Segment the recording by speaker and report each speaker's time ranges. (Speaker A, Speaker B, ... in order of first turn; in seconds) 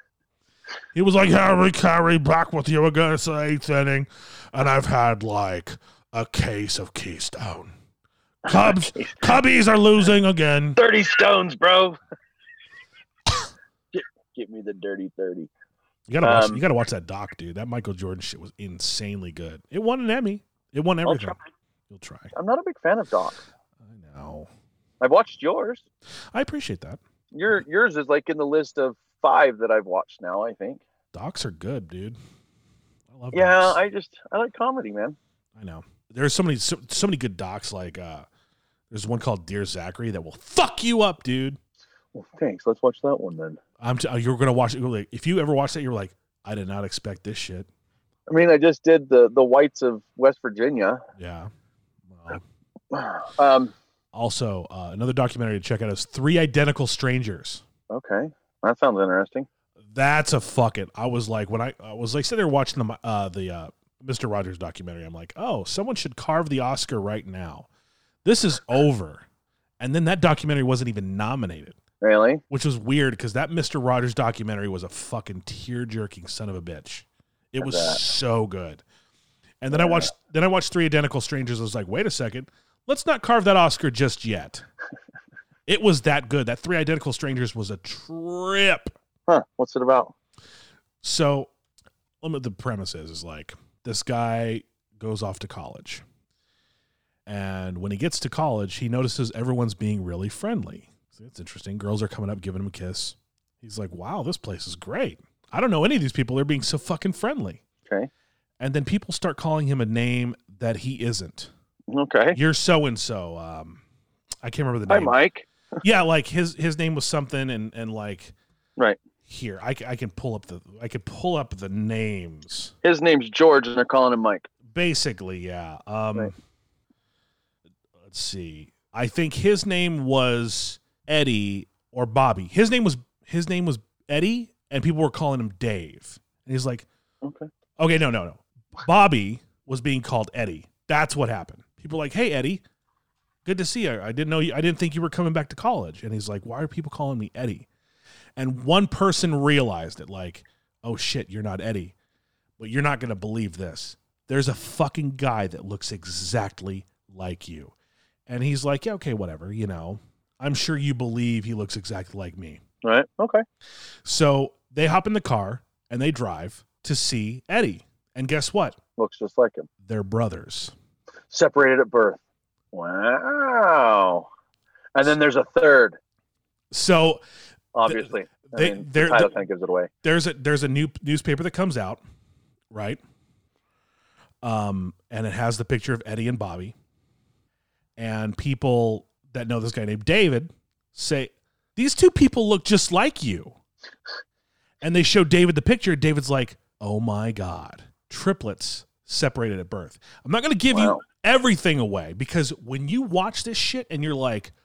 Speaker A: 0.9-7.7, 8.4-10.8, 16.1-21.4, 21.9-22.3, 23.8-24.5, 26.3-27.0, 31.1-32.2, 33.1-33.8, 35.5-38.3, 38.9-41.6, 43.8-47.7, 51.2-51.5, 52.1-52.4, 54.1-57.6, 59.9-67.7, 68.2-69.2, 69.8-71.8, 72.5-78.8, 79.6-84.6, 85.7-88.9, 91.0-91.5, 92.2-96.0, 97.2-107.6, 108.6-111.5, 112.3-113.8, 114.4-115.2, 115.8-118.3, 119.3-122.7, 124.7-126.3, 128.0-136.9, 137.8-142.6, 143.4-147.7, 148.3-151.9, 152.6-157.7, 158.3-162.6, 164.0-168.8, 169.8-170.7, 176.7-177.2, 177.8-179.4, 180.0-182.0, 182.7-183.0, 184.4-186.7, 188.0-193.6, 194.8-204.5
Speaker B: 8.5-9.2, 10.8-12.0, 13.9-15.5, 16.2-16.6, 21.1-21.4, 22.3-23.4, 25.0-25.8, 27.3-30.8, 33.3-35.2, 42.1-43.6, 48.3-51.0, 52.9-53.7, 57.9-59.5, 72.0-72.4, 77.6-78.0, 79.7-80.1, 89.3-90.1, 111.9-112.4, 114.9-115.5, 122.8-124.5, 137.2-137.5, 162.8-163.4, 169.0-169.7, 171.3-172.2, 172.7-174.3, 174.9-176.0, 177.7-179.9, 200.7-201.0